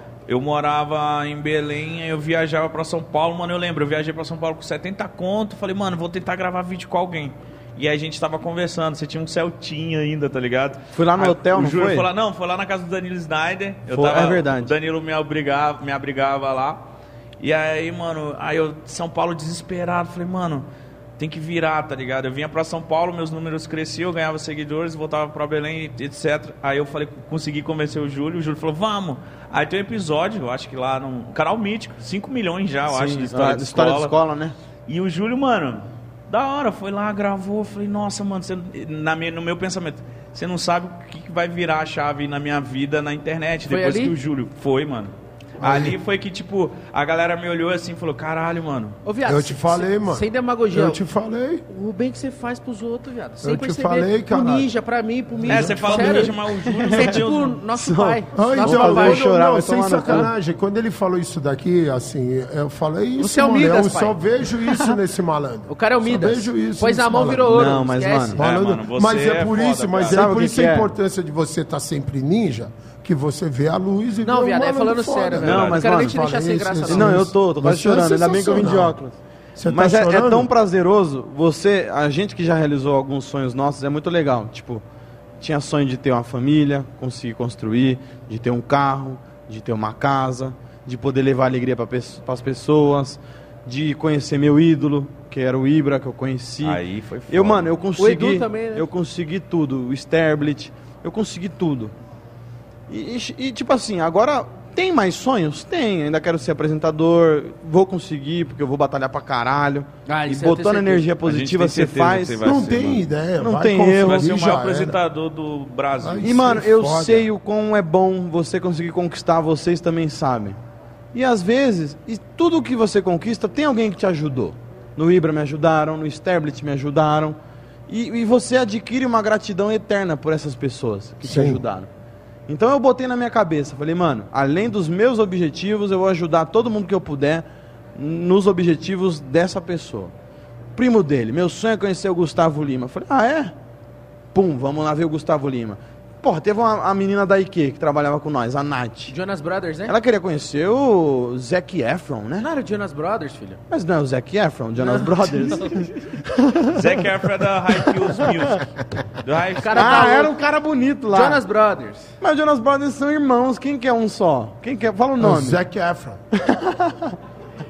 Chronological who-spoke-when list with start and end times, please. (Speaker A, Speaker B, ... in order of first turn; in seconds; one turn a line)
Speaker A: 0.3-16.8
Speaker B: 10.9-12.1
Speaker B: 13.9-14.7
Speaker A: 17.4-20.6
Speaker A: 21.2-34.1
Speaker B: 32.9-34.5
Speaker A: 34.9-49.0
Speaker C: 43.7-44.1
Speaker D: 45.6-46.0
Speaker C: 49.0-51.0
Speaker D: 49.2-51.6
Speaker C: 51.7-56.3
Speaker D: 53.4-54.7
Speaker D: 55.4-56.0
Speaker A: 55.5-57.6
Speaker B: 56.0-57.2
Speaker C: 56.9-59.3
Speaker B: 57.7-60.3
Speaker D: 58.3-67.7
Speaker C: 63.2-65.0
Speaker C: 65.7-68.4
Speaker B: 67.5-68.4
Speaker D: 68.4-79.0
Speaker A: 68.4-70.2
Speaker B: 70.1-70.9
Speaker C: 74.2-77.2
Speaker A: 75.4-75.8
Speaker B: 75.4-76.2
Speaker B: 76.9-79.2
Speaker D: 79.5-80.5
Speaker B: 79.7-84.8
Speaker B: 85.4-101.9
Speaker A: 96.6-97.7
Speaker C: 98.0-98.8
Speaker B: 102.9-112.6
Speaker C: 110.0-111.1
Speaker A: 111.2-113.0
Speaker D: 112.4-115.0
Speaker B: 113.4-114.3
Speaker A: 113.9-116.5
Speaker D: 116.0-117.3
Speaker B: 116.2-120.6
Speaker B: 121.1-127.4
Speaker B: 127.9-131.9
Speaker D: 131.2-131.6
Speaker B: 132.5-140.1
Speaker B: 140.7-143.5
Speaker B: 144.3-149.1
Speaker C: 149.1-149.9
Speaker B: 149.9-152.5
Speaker C: 152.4-153.6
Speaker B: 153.7-157.0
Speaker C: 154.8-155.9
Speaker A: 156.7-158.7
Speaker A: 159.2-160.2
Speaker C: 159.6-160.4
Speaker B: 159.7-161.4
Speaker C: 161.1-162.1
Speaker B: 162.2-165.6
Speaker D: 165.2-166.2
Speaker B: 166.3-167.2